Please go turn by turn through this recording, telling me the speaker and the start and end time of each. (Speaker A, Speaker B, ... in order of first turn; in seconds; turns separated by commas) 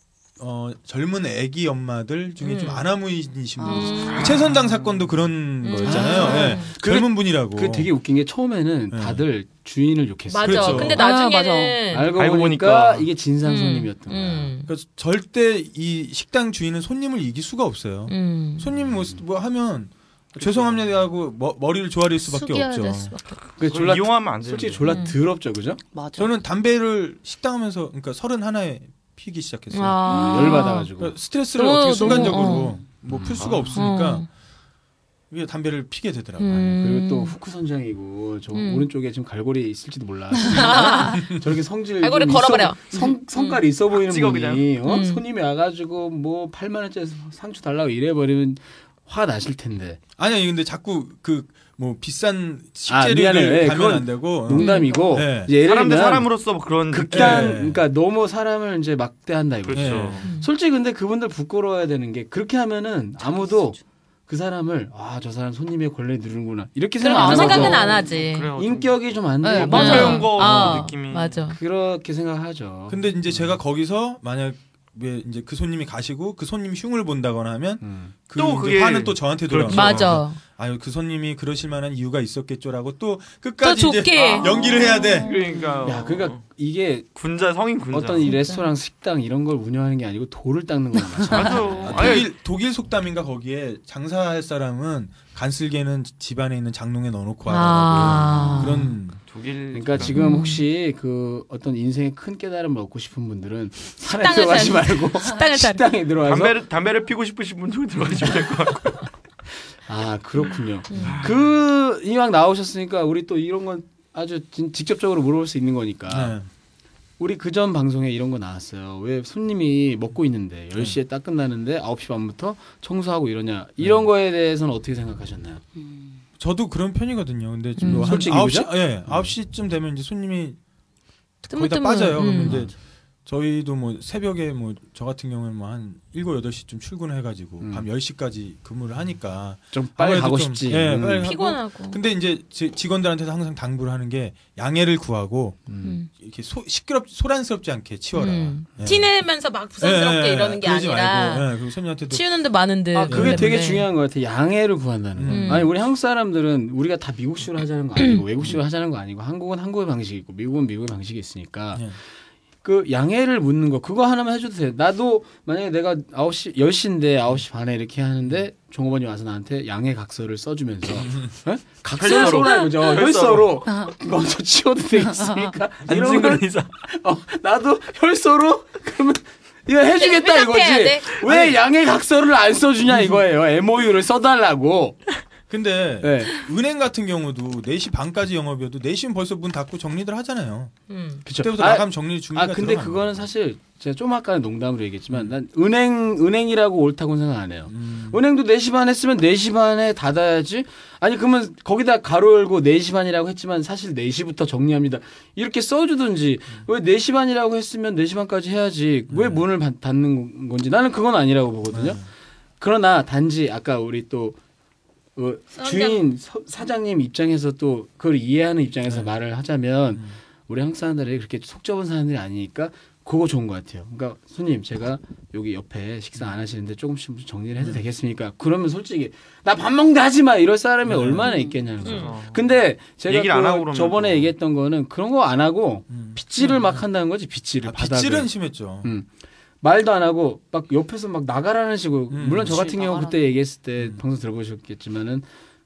Speaker A: 0.4-7.9, Speaker B: 2.4-2.9, Speaker C: 3.6-4.3, Speaker B: 3.7-4.2, Speaker B: 5.6-6.7, Speaker D: 5.8-11.0, Speaker C: 5.9-6.5, Speaker A: 8.9-9.2, Speaker B: 10.3-12.1, Speaker A: 10.4-11.0, Speaker C: 10.8-11.8, Speaker D: 11.9-14.5, Speaker E: 12.2-13.1, Speaker B: 13.4-14.7, Speaker A: 14.7-23.1, Speaker B: 18.1-18.7, Speaker D: 20.4-20.8, Speaker C: 22.2-23.4, Speaker E: 23.4-24.9, Speaker D: 23.6-25.8, Speaker B: 24.9-25.2, Speaker C: 25.9-26.4, Speaker A: 26.2-30.0, Speaker B: 29.7-30.9, Speaker C: 30.1-30.7, Speaker D: 30.1-31.2, Speaker A: 31.0-34.3, Speaker B: 31.6-32.8, Speaker E: 33.2-33.8, Speaker B: 33.7-34.3, Speaker A: 35.3-36.8, Speaker B: 36.4-37.4, Speaker D: 36.8-50.0, Speaker B: 38.5-38.9, Speaker B: 40.5-41.3, Speaker C: 40.5-41.1, Speaker B: 42.0-43.6, Speaker E: 43.9-44.7, Speaker B: 44.8-45.2, Speaker A: 50.2-55.5, Speaker D: 52.9-56.4, Speaker B: 54.5-54.9, Speaker C: 54.7-55.2, Speaker E: 55.6-57.6, Speaker D: 56.9-68.0, Speaker A: 57.1-57.8, Speaker E: 59.7-60.3, Speaker A: 59.7-60.2, Speaker B: 60.2-60.5, Speaker C: 63.2-63.8, Speaker B: 67.0-68.5, Speaker C: 67.0-68.3, Speaker E: 67.4-71.4, Speaker D: 68.5-70.9, Speaker C: 69.4-70.3, Speaker B: 69.6-71.6, Speaker D: 71.5-73.6, Speaker A: 72.9-85.3, Speaker D: 77.8-78.1, Speaker E: 78.3-80.2, Speaker B: 79.7-80.4, Speaker B: 83.6-84.8, Speaker C: 84.2-86.0, Speaker E: 85.2-86.4, Speaker D: 85.8-87.1, Speaker E: 87.2-88.3, Speaker D: 87.9-92.1, Speaker B: 88.2-88.7, Speaker C: 91.2-91.8, Speaker E: 91.3-92.3, Speaker A: 91.8-99.2, Speaker B: 97.5-99.0, Speaker D: 98.1-98.8, Speaker E: 99.3-100.2, Speaker D: 99.7-106.6, Speaker B: 100.1-100.6, Speaker B: 104.0-105.9, Speaker E: 106.2-109.0, Speaker D: 109.9-116.4, Speaker B: 110.9-111.2, Speaker E: 111.0-111.3, Speaker A: 116.1-116.5, Speaker D: 117.2-125.6, Speaker A: 123.8-124.1, Speaker C: 125.8-126.2, Speaker A: 126.4-130.6, Speaker B: 127.8-128.3, Speaker D: 127.8-129.3, Speaker B: 131.5-132.7, Speaker A: 131.5-132.7, Speaker D: 132.3-132.7, Speaker A: 133.3-149.2, Speaker D: 137.6-137.9, Speaker D: 139.7-141.3, Speaker B: 141.2-142.0, Speaker D: 145.7-146.0, Speaker B: 145.8-146.1, Speaker B: 148.2-151.5, Speaker A: 149.8-152.2, Speaker B: 152.1-153.9, Speaker D: 152.9-161.9, Speaker A: 153.1-153.6, Speaker A: 155.2-155.7, Speaker B: 155.3-155.7, Speaker D: 162.6-185.0, Speaker A: 171.0-171.3, Speaker E: 172.0-173.6, Speaker C: 173.7-173.9, Speaker C: 175.0-175.5, Speaker E: 175.9-176.7, Speaker B: 179.9-181.2, Speaker A: 181.2-181.6, Speaker A: 182.8-183.2, Speaker A: 185.5-193.3, Speaker D: 186.0-186.3, Speaker B: 190.9-191.2, Speaker D: 191.2-212.0, Speaker A: 197.7-198.2, Speaker A: 209.1-209.4, Speaker A: 211.7-212.1, Speaker D: 212.6-214.4, Speaker D: 215.2-238.3, Speaker B: 215.6-216.0, Speaker A: 230.9-231.3, Speaker C: 231.2-231.8, Speaker B: 231.8-232.1, Speaker E: 231.9-232.5, Speaker E: 233.1-234.3, Speaker A: 235.9-236.8, Speaker A: 237.6-238.9, Speaker D: 238.8-239.1, Speaker D: 239.6-245.3, Speaker A: 242.1-242.6, Speaker C: 242.4-243.3